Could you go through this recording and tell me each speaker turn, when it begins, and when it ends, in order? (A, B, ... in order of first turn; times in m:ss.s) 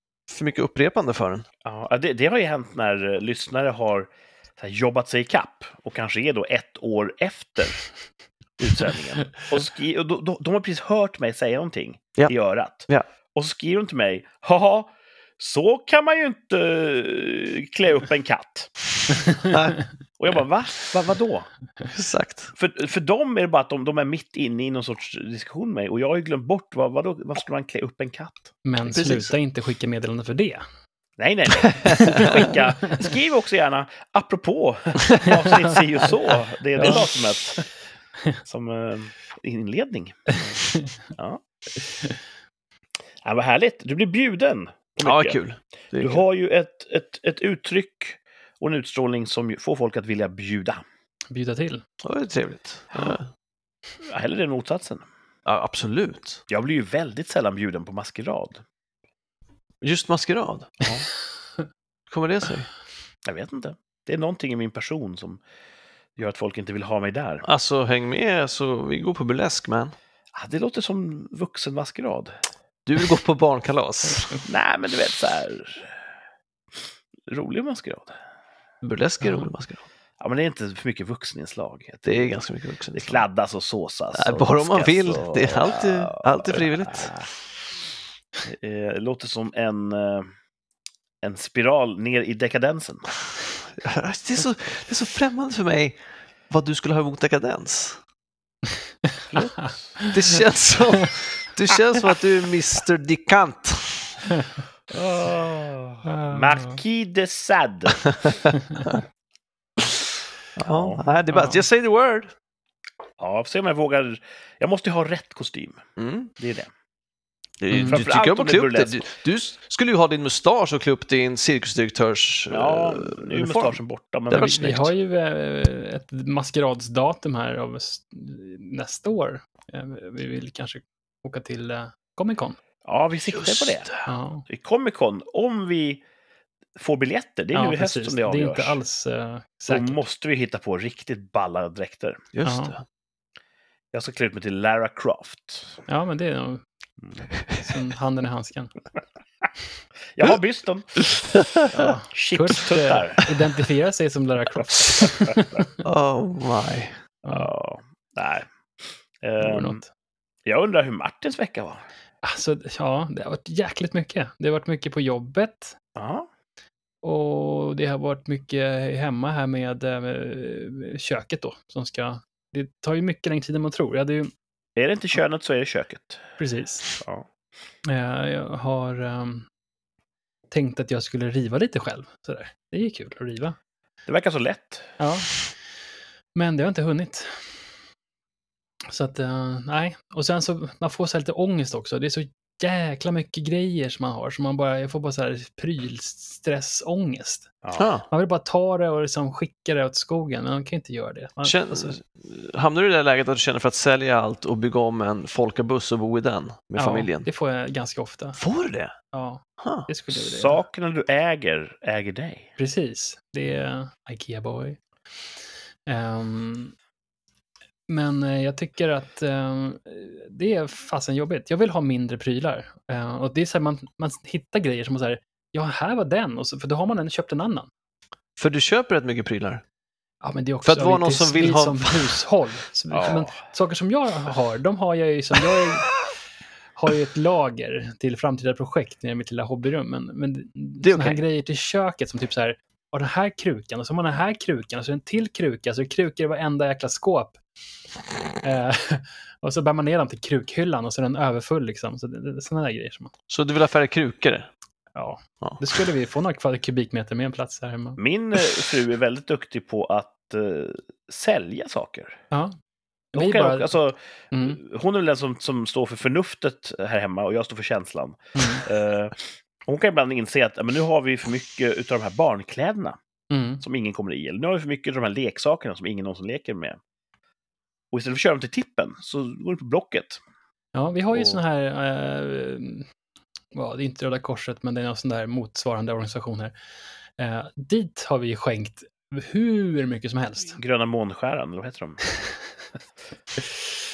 0:00.3-0:01.4 A
0:01.6-0:07.8 B
0:08.6-0:18.7 B
0:19.5-0:19.8 A
0:20.2-0:21.5 B
0:21.9-0:22.5 A
0:22.5-0:28.5 B
0:28.6-0:30.6 C
0:28.8-0:29.3 A
0:31.2-0:37.6 B
0:31.8-0:32.1 A
0:32.0-0:33.1 C
0:36.8-0:37.1 C
0:38.4-0:40.6 B
0:41.1-0:41.4 B
0:43.2-0:45.4 B
0:45.0-0:46.2 A
0:46.0-0:50.8 B
0:51.3-0:51.8 C
0:52.0-0:53.3 A
0:52.9-0:53.2 B
0:54.0-0:55.0 B
0:55.4-0:56.4 A
0:56.5-0:58.6 B
0:59.8-1:00.8 A
1:02.1-1:02.7 A
1:03.2-1:05.4 B
1:06.2-1:07.4 B
1:07.4-1:09.9 A
1:10.3-1:12.4 B
1:12.8-1:14.4 A
1:14.4-1:16.0 B
1:17.3-1:18.1 B
1:18.8-1:19.8 A
1:20.2-1:22.4 B
1:22.0-1:23.2 A
1:22.9-1:27.3 B
1:24.1-1:27.2 A
1:28.4-1:30.3 B
1:31.2-1:33.1 B
1:33.8-1:38.0 A
1:39.3-1:40.0 B
1:40.0-1:40.3 C
1:40.1-1:44.2 A
1:44.9-1:48.1 B
1:46.0-1:46.8 C
1:50.6-1:52.3 A
1:50.6-1:51.0 B
1:51.3-1:51.6 C
1:53.2-1:55.8 B
1:56.0-1:56.3 A
1:56.4-1:56.7 B
1:57.6-2:03.8 A
1:57.7-1:58.0 C
1:57.8-1:59.1 B
2:02.5-2:04.9 B
2:04.3-2:04.9 A
2:04.3-2:12.6 C
2:12.8-2:13.9 B
2:13.3-2:14.1 A
2:14.0-2:14.4 C
2:14.5-2:16.0 B
2:16.8-2:18.8 B
2:17.5-2:20.0 C
2:19.7-2:22.2 B
2:22.3-2:22.8 A
2:22.4-2:22.8 C
2:23.9-2:25.8 B
2:25.9-2:26.6 C
2:27.0-2:27.3 B
2:27.4-2:28.7 C
2:30.1-2:31.3 B
2:31.3-2:31.9 A
2:31.7-2:35.8 C
2:32.1-2:33.3 B
2:34.8-2:35.6 B
2:35.8-2:36.9 A
2:37.2-2:38.5 B
2:39.2-2:39.8 B
2:39.4-2:39.9 C
2:40.4-2:41.8 B
2:42.2-2:45.8 C
2:46.0-2:46.3 B
2:47.0-2:54.3 C
2:54.8-2:56.2 B
2:56.4-2:57.0 C
2:57.0-2:57.2 B
2:57.8-2:59.4 C
3:00.5-3:03.6 C
3:04.1-3:05.0 B
3:05.0-3:05.4 C
3:06.3-3:07.6 C
3:08.9-3:17.5 C
3:17.6-3:17.9 B
3:17.8-3:18.1 A
3:18.1-3:22.0 C
3:21.4-3:27.3 A
3:26.8-3:28.4 C
3:28.4-3:28.9 A
3:29.1-3:30.6 C
3:29.6-3:29.9 A
3:30.1-3:32.5 B
3:32.6-3:34.8 C
3:35.9-3:36.7 C
3:37.9-3:47.7 C
3:48.4-3:49.6 A
3:50.2-3:56.0 C
3:50.6-3:52.2 A
3:52.9-3:53.3 B
3:56.8-4:07.4 C
4:00.8-4:01.2 A
4:08.4-4:13.1 C
4:13.3-4:14.5 A
4:14.9-4:18.0 C
4:18.0-4:22.2 B
4:23.1-4:33.0 B
4:23.1-4:23.8 C
4:24.3-4:24.6 C
4:28.4-4:28.6 C
4:33.3-4:33.6 C
4:33.6-4:36.8 B
4:37.9-4:40.2 B
4:40.7-4:42.9 C
4:41.1-4:41.4 B
4:43.5-4:46.5 C
4:47.2-4:50.6 C
4:50.6-4:52.0 B